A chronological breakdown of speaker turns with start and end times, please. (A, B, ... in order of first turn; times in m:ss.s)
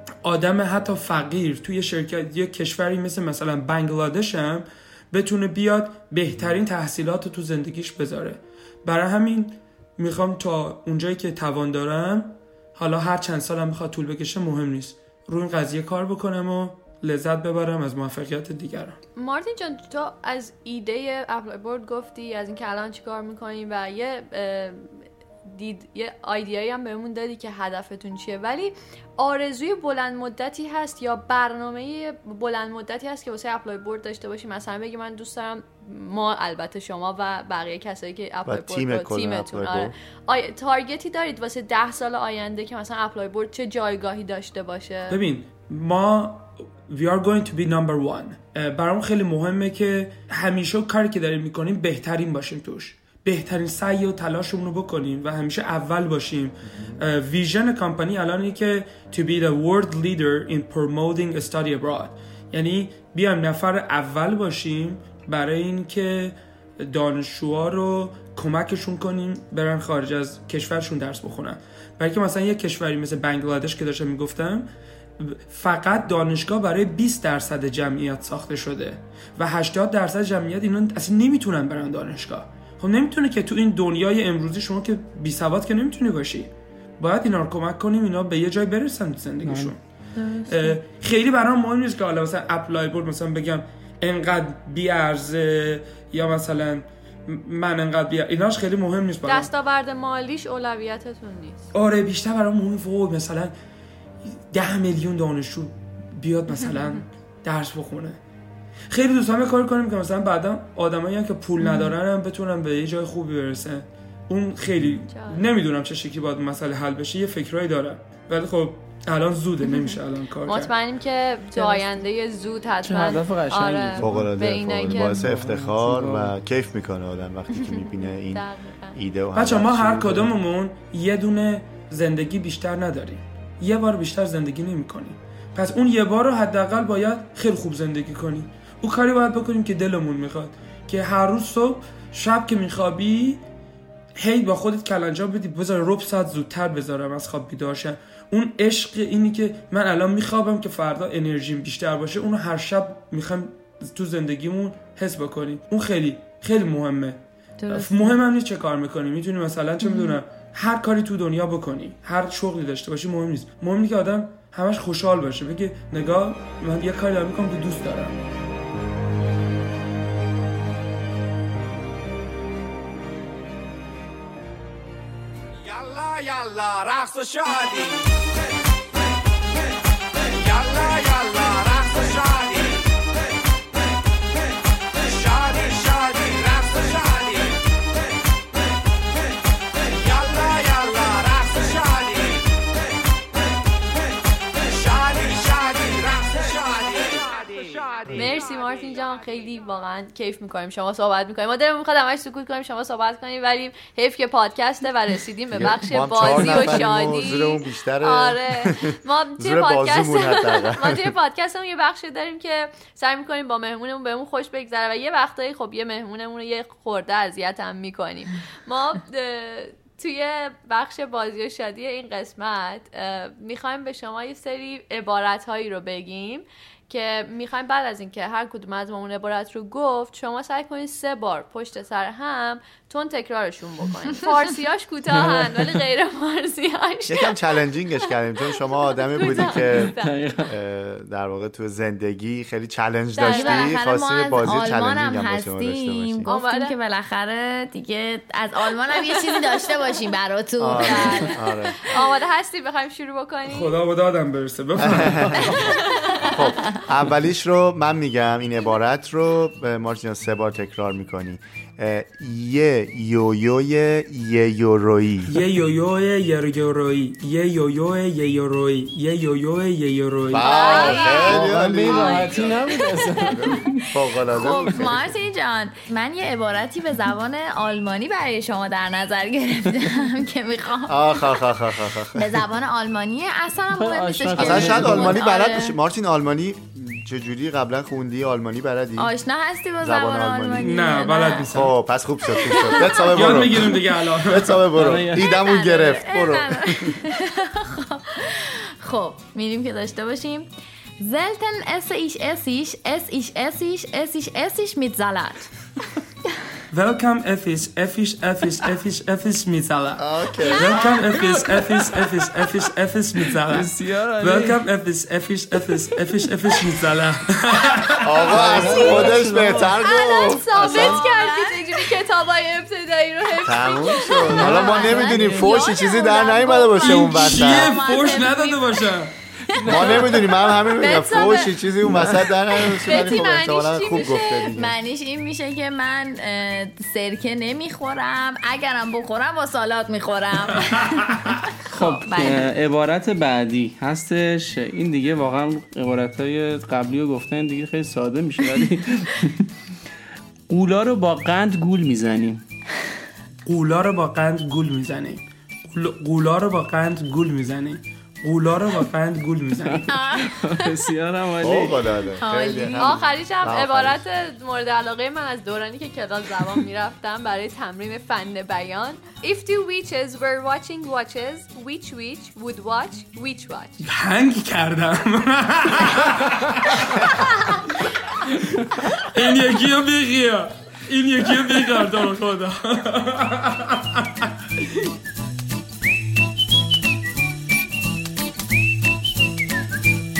0:00.2-0:19.0 A
0:19.2-0:45.2 B
0:38.5-0:39.9 C
0:45.1-1:14.7 A
0:56.7-0:57.0 C
1:15.2-1:29.8 A
1:29.4-1:29.7 D
1:30.2-1:30.8 E
1:30.5-1:39.5 A
1:39.3-1:41.7 B
1:41.8-1:43.5 A
1:44.5-1:48.2 A
1:48.9-2:00.7 A
1:51.6-1:52.0 E
1:55.1-1:55.5 B
1:59.6-2:05.3 B
2:01.5-2:01.8 E
2:02.8-2:04.4 D
2:04.0-2:10.4 C
2:04.9-2:06.3 D
2:08.3-2:09.0 B
2:09.3-2:23.4 A
2:24.2-2:37.2 A
2:37.6-2:38.2 E
2:37.7-2:48.2 A
2:39.8-2:40.2 E
3:18.0-3:57.7 B
3:18.1-3:18.4 C
3:25.5-3:31.1 C
3:55.1-3:55.7 D
3:57.1-4:00.0 C
3:58.4-4:00.3 B
3:59.5-4:00.6 D
4:00.5-4:06.3 C
4:03.2-4:03.7 B
4:03.2-4:11.3 E
4:06.3-4:06.8 B
4:10.6-4:11.8 C
4:10.8-4:13.8 B
4:13.5-4:15.7 A
4:14.8-4:25.4 C
4:15.6-4:16.4 B
4:25.3-4:31.0 A
4:30.3-4:32.6 C
4:30.4-4:33.4 E
4:31.2-4:33.9 D
4:33.3-4:35.1 C
4:34.3-4:41.5 E
4:40.9-4:42.4 C
4:42.2-4:45.8 E
4:43.7-4:45.2 D
4:44.4-4:49.1 C
4:49.0-4:51.5 E
4:49.8-4:50.8 C
4:50.6-4:51.8 A
4:51.5-4:57.0 C
4:52.3-4:53.4 E
4:53.1-4:54.7 A
4:54.8-4:55.2 D
4:55.2-5:05.5 E
5:06.7-5:18.4 A
5:10.0-5:11.0 C
5:11.4-5:12.1 D
5:13.4-5:14.6 D
5:18.0-5:21.0 C
5:18.3-5:19.8 D
5:19.8-5:24.9 B
5:20.6-5:21.8 E
5:23.4-5:27.9 C
5:24.3-5:25.6 D
5:24.4-5:29.0 E
5:26.8-5:29.1 A
5:29.6-5:30.0 D
5:29.6-5:34.8 C
5:30.5-5:31.7 B
5:32.6-5:34.5 B
5:34.5-5:42.5 E
5:40.6-5:41.2 A
5:41.7-5:49.5 D
5:50.5-5:52.4 D
5:53.5-5:59.9 A
5:59.7-6:01.8 D
5:59.9-6:00.7 E
6:01.4-6:04.0 C
6:02.2-6:03.0 E
6:02.8-6:13.8 B
6:13.8-6:17.6 A
6:18.2-6:24.8 A